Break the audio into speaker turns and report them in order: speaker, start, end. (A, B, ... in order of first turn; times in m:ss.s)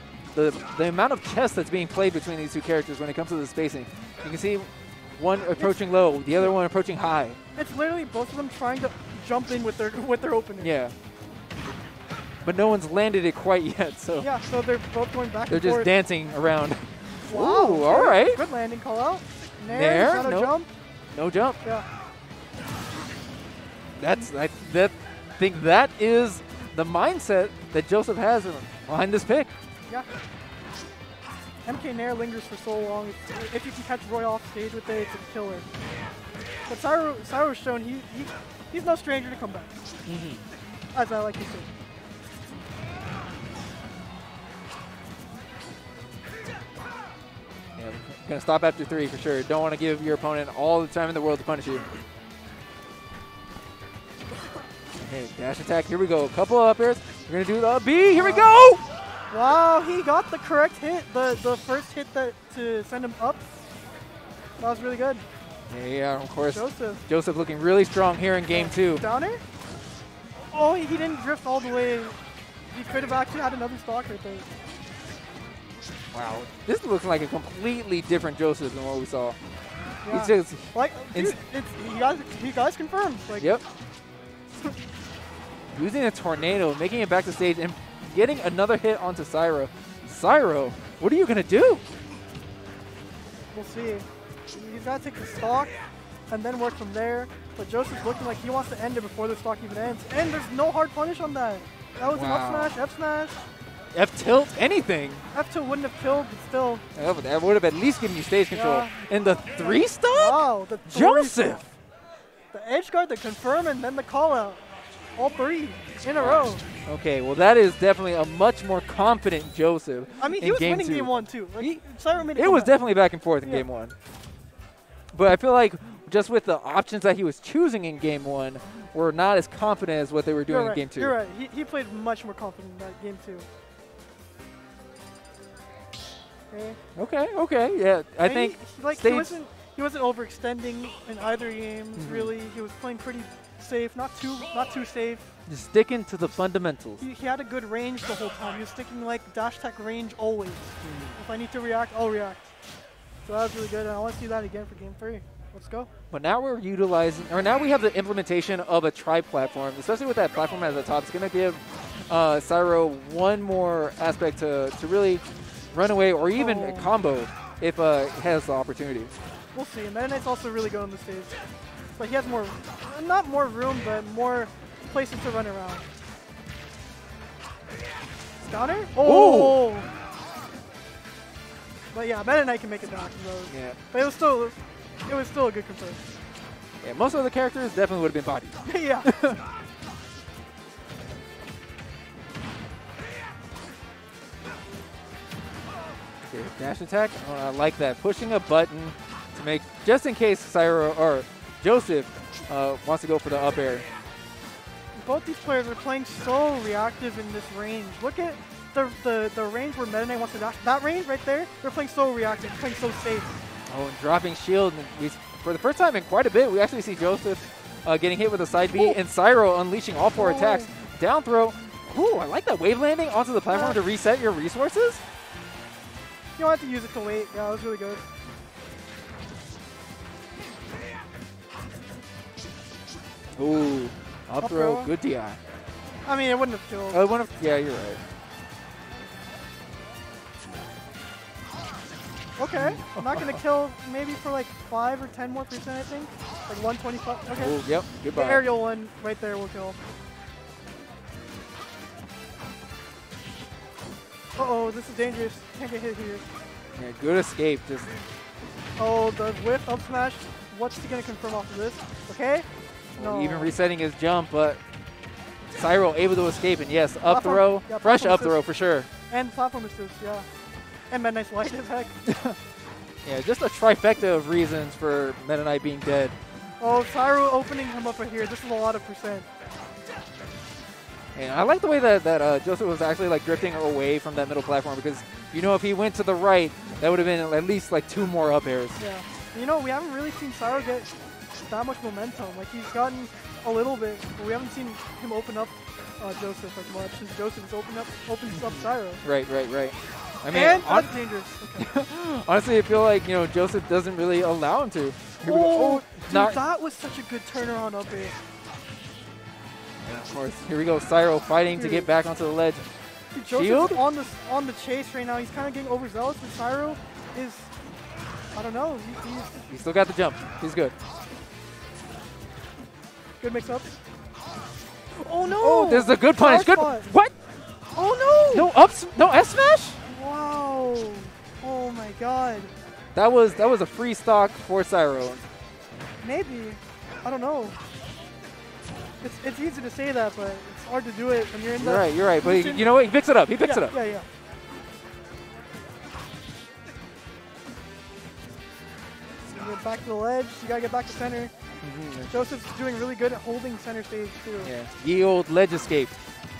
0:00.3-0:07.4 A
0:07.5-0:10.7 B
0:10.6-0:10.9 A
0:12.4-0:14.3 A
0:14.2-0:15.9 B
0:15.5-0:18.4 A
0:17.3-0:20.7 B
0:19.7-0:20.5 A
0:21.1-0:21.6 A
0:24.0-0:29.5 A
0:31.6-0:35.6 B
0:36.7-0:39.8 B
0:40.0-0:40.4 A
0:40.9-0:41.7 B
0:47.8-0:51.8 A
0:55.0-0:58.8 A
0:58.1-0:58.5 B
0:59.3-1:03.4 B
1:04.6-1:05.2 B
1:05.7-1:09.0 A
1:06.5-1:07.0 B
1:08.5-1:09.4 B
1:10.5-1:12.2 B
1:12.7-1:14.5 B
1:16.1-1:19.4 A
1:20.0-1:23.5 B
1:20.1-1:21.4 A
1:25.7-1:31.8 A
1:33.5-1:35.7 B
1:36.3-1:43.4 B
1:42.1-1:42.7 A
1:43.9-1:45.2 A
1:45.3-1:46.8 B
1:46.9-1:51.7 A
1:48.5-1:51.6 B
1:52.5-1:54.6 B
1:55.2-1:56.6 B
1:56.1-2:01.8 A
2:00.2-2:02.7 B
2:02.3-2:03.9 A
2:05.1-2:11.1 A
2:10.5-2:13.5 B
2:16.5-2:16.8 B
2:17.0-2:19.3 A
2:18.2-2:25.2 B
2:22.0-2:22.3 A
2:25.5-2:27.0 A
2:27.0-2:32.5 B
2:30.8-2:31.2 A
2:33.2-2:35.9 B
2:36.1-2:45.2 A
2:45.7-2:49.1 A
2:46.3-2:46.9 B
2:49.5-2:51.4 B
2:52.0-2:55.8 B
2:58.4-2:59.9 B
2:59.0-2:59.7 A
3:01.9-3:04.5 B
3:03.5-3:03.8 A
3:05.1-3:06.0 B
3:06.8-3:09.4 A
3:08.6-3:09.1 B
3:16.2-3:23.8 A
3:25.0-3:33.4 B
3:33.7-3:45.0 A
3:40.1-3:40.7 B
3:43.5-3:43.8 B
3:46.4-3:48.0 B
3:53.4-3:55.4 A
3:54.4-3:54.9 B
3:56.0-3:57.0 B
3:56.9-3:58.0 A
4:02.4-4:07.6 B
4:02.5-4:03.4 A
4:07.3-4:08.4 A
4:08.1-4:09.8 B
4:14.4-4:16.2 B
4:16.8-4:17.9 A
4:18.8-4:23.5 B
4:23.0-4:24.6 A
4:25.5-4:28.9 A
4:27.0-4:28.4 B
4:29.1-4:30.2 B
4:30.9-4:31.9 B
4:32.0-4:32.4 A
4:33.0-4:36.2 A
4:36.6-4:39.3 B
4:41.1-4:48.8 A
4:48.8-4:50.9 B
4:51.5-4:59.0 B
4:58.3-5:00.9 A
5:00.3-5:01.7 B
5:01.6-5:06.4 A
5:05.2-5:08.1 B
5:09.8-5:12.6 A
5:11.5-5:11.9 B
5:13.1-5:17.5 B
5:13.3-5:13.8 A
5:18.3-5:19.4 B
5:19.5-5:20.7 A
5:23.2-5:23.8 B
5:25.0-5:26.9 B
5:25.2-5:27.1 A
5:27.7-5:28.5 B
5:28.3-5:29.8 A
5:29.9-5:32.5 B
5:32.9-5:35.2 A
5:36.0-5:37.6 B
5:39.0-5:42.7 B
5:41.6-5:43.7 A
5:43.4-5:44.0 B
5:49.3-5:51.3 B
5:51.6-5:52.3 A
5:52.1-5:54.5 B
5:54.4-5:55.9 A